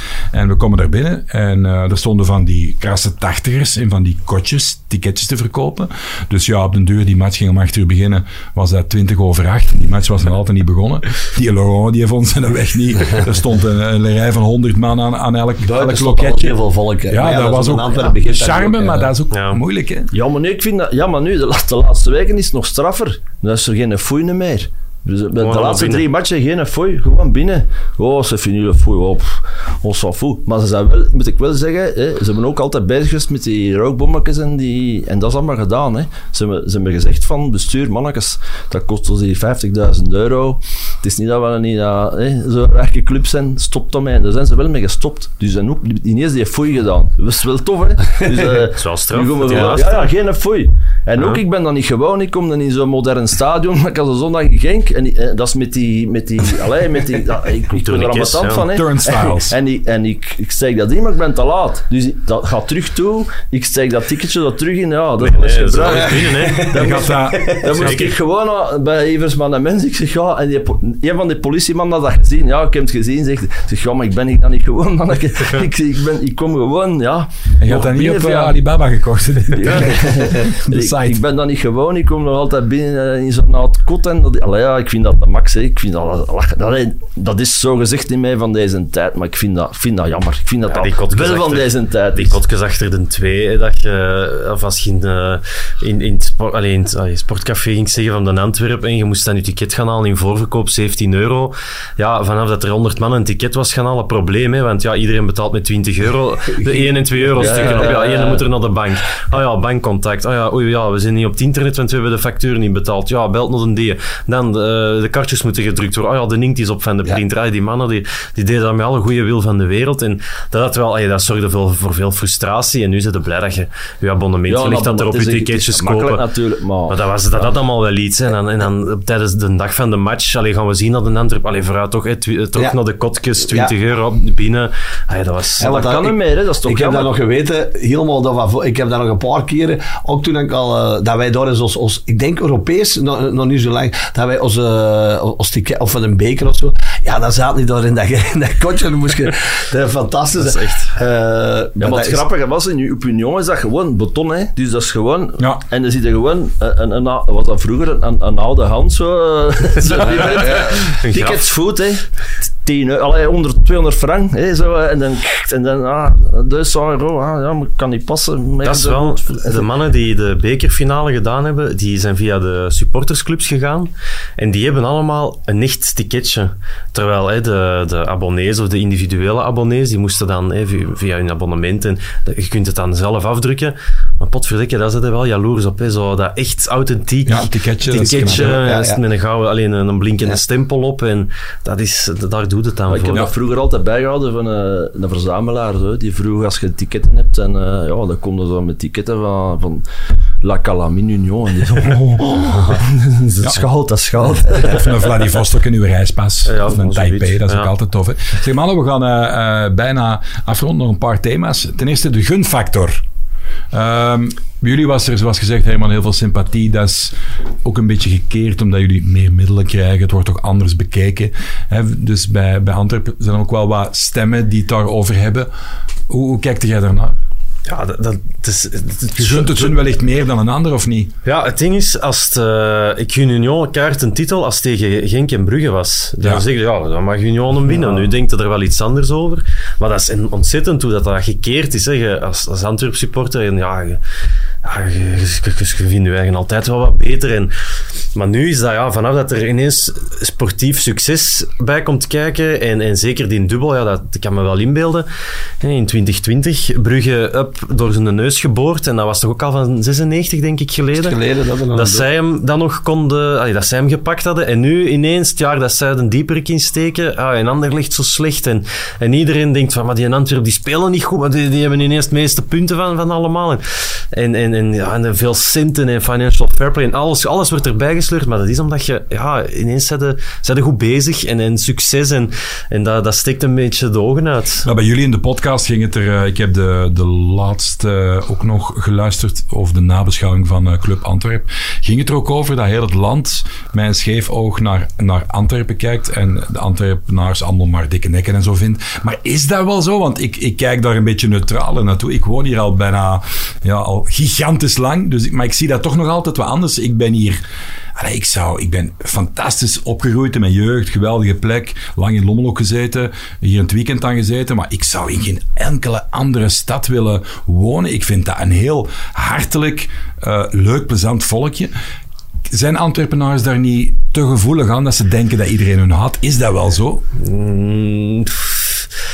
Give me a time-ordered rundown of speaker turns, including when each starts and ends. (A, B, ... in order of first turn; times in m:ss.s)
0:00.3-0:16.6 A
0:15.6-0:19.1 B
0:17.1-0:20.1 A
0:19.3-0:19.6 C
0:20.1-1:18.6 D
0:25.4-0:26.1 C
0:48.5-0:50.1 C
0:57.7-0:58.7 C
0:58.7-0:59.6 A
1:05.2-1:08.2 C
1:06.7-1:08.1 A
1:17.6-1:21.2 A
1:19.5-1:32.4 D
1:30.7-2:06.2 C
1:46.5-1:47.9 B
1:47.4-1:48.5 D
2:04.5-2:07.5 D
2:06.9-2:15.8 C
2:13.5-2:13.7 B
2:15.6-2:17.1 D
2:15.6-2:32.3 B
2:30.4-2:30.9 C
2:31.8-2:49.7 D
2:40.1-2:41.5 C
2:48.6-3:13.3 C
3:07.3-3:08.6 A
3:08.0-3:09.0 B
3:12.9-3:19.8 D
3:20.4-3:25.0 D
3:24.5-3:33.0 A
3:26.5-3:27.7 C
3:33.7-3:45.5 A
3:46.1-3:47.2 A
3:47.7-3:49.8 C
3:49.2-3:51.1 A
3:51.2-4:04.0 C
4:04.6-4:07.5 C
4:08.2-4:15.1 C
4:15.6-4:21.2 C
4:20.9-4:22.0 B
4:21.7-4:44.7 C
4:44.6-5:07.4 A
5:08.0-5:21.7 A
5:22.5-5:27.0 A
5:27.2-5:28.9 C